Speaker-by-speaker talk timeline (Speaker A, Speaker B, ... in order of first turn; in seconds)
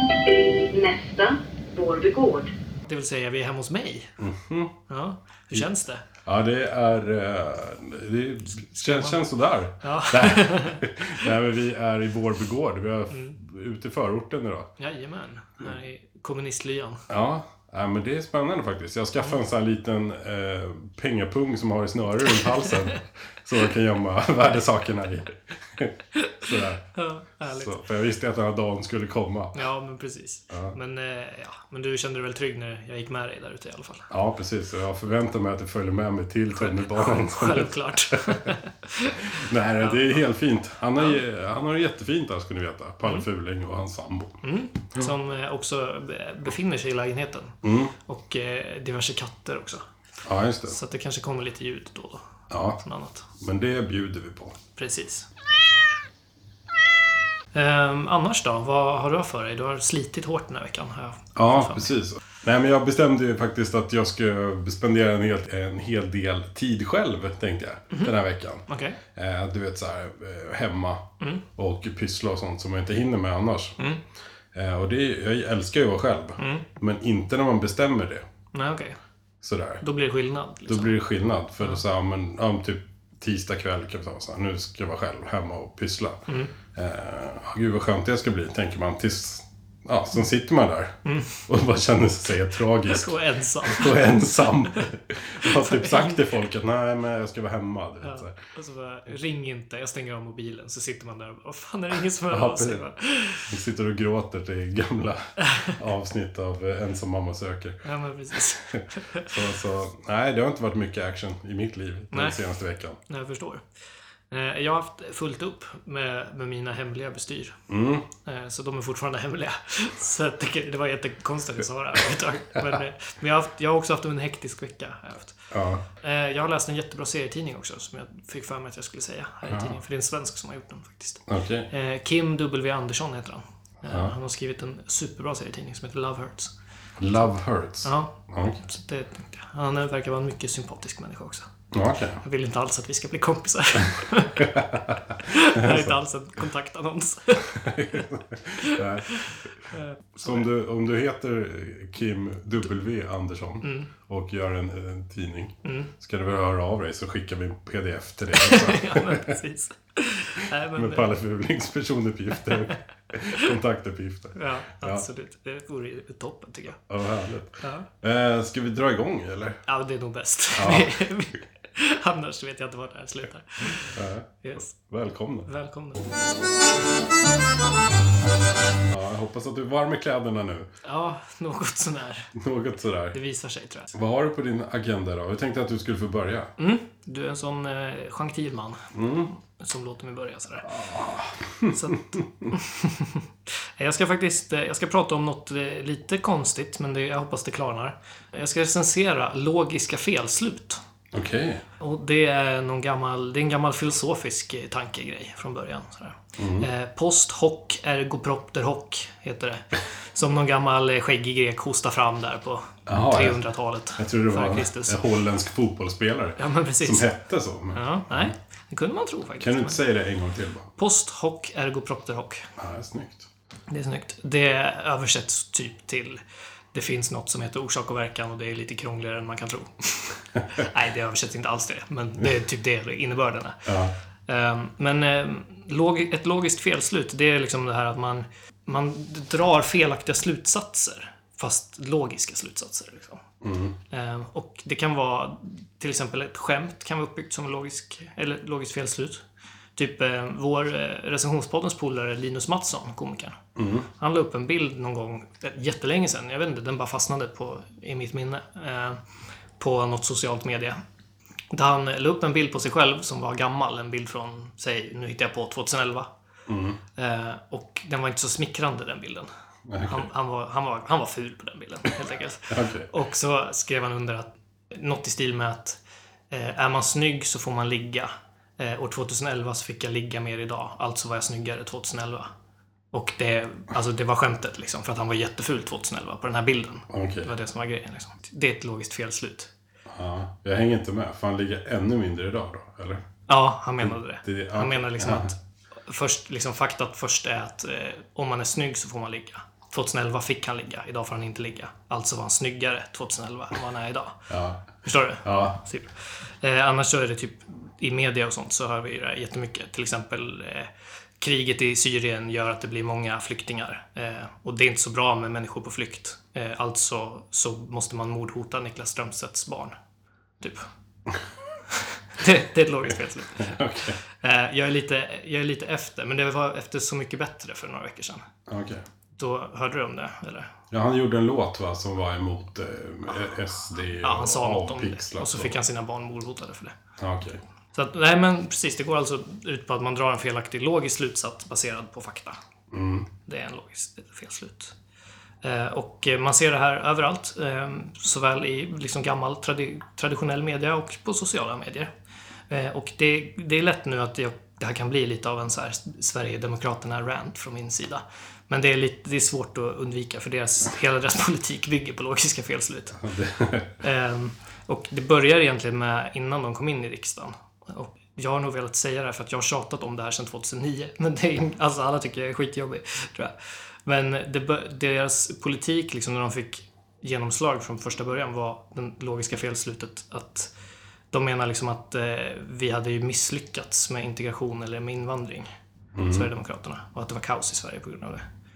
Speaker A: 0.2-2.5
Speaker B: 2.9-4.1, 4.9-6.0, 8.8-9.2, 9.8-11.3, 13.1-13.4, 14.8-17.0, 22.4-23.0, 26.9-27.7, 29.5-34.1, 36.6-40.2, 44.4-49.9, 50.7-52.2, 52.8-53.3, 54.8-55.3, 57.5-61.9, 68.7-69.0, 76.4-76.7, 78.5-79.0, 79.8-81.0, 86.3-86.5, 91.0-91.4, 92.8-94.1, 95.4-96.4, 98.0-103.6, 105.4-105.8, 107.8-109.3, 112.1-112.4, 113.1-113.6, 114.3-117.6, 118.2-125.4, 126.0-136.5, 137.8-141.5, 142.2-144.5, 145.2-148.1, 148.6-150.5, 153.6-153.9, 155.6-155.9, 158.3-161.1, 162.4-162.7, 164.3-166.8, 167.6-167.9, 169.7-174.8, 175.5-176.1, 180.8-182.3, 183.1-184.0, 186.6-188.8, 189.4-190.7, 191.7-193.2, 193.8-200.8, 201.8-215.0, 216.4-217.1, 217.7-219.8, 220.8-222.5, 223.7-226.2, 226.7-233.7, 234.3-243.2, 243.9-249.2, 249.8-253.4, 254.0-259.0, 259.6-260.8, 261.5-266.1, 267.0-269.3, 269.9-275.8, 276.3-282.3, 282.9-289.5, 293.3-295.4, 295.9-304.2, 304.8-319.8, 320.4-320.7, 321.7-323.6, 324.2-328.2, 329.2-330.5, 334.0-336.8, 337.7-342.4, 343.3-344.7, 345.4-351.9, 352.5-363.0, 363.8-373.3, 373.9-380.5, 381.1-385.5, 386.1-388.2
Speaker C: 4.2-4.7, 6.2-14.7, 17.1-26.9, 27.4-29.7, 30.5-30.8, 34.1-38.5, 39.3-44.4, 47.6-47.9, 50.2-50.8, 52.5-52.8, 53.4-54.6, 61.4-73.8, 74.5-78.2, 79.4-79.8, 80.7-86.2, 86.7-98.4, 102.3-102.8, 103.5-107.8, 108.7-113.0, 117.7-118.1, 125.5-125.8, 129.5-129.8, 131.3-131.7, 133.9-134.1, 137.0-138.6, 141.7-142.2, 144.4-146.0, 147.6-149.3, 150.2-159.4, 160.7-165.1, 166.9-169.6, 170.6-171.0, 173.8-175.5, 178.8-180.7, 182.4-183.2, 183.9-186.5, 188.9-189.3, 190.6-192.5, 201.1-201.6, 206.4-206.7, 212.9-213.4, 214.0-218.3, 219.4-220.7, 222.6-223.3, 233.7-233.9, 243.4-243.8, 253.6-253.9, 266.5-266.8, 269.7-270.1, 272.5-272.9, 286.9-287.3, 289.9-293.0, 293.8-295.3, 304.3-304.6, 305.2-305.6, 322.9-324.0, 328.5-328.8, 330.7-335.6, 337.0-337.4, 342.7-343.1, 363.0-363.7, 385.9-386.3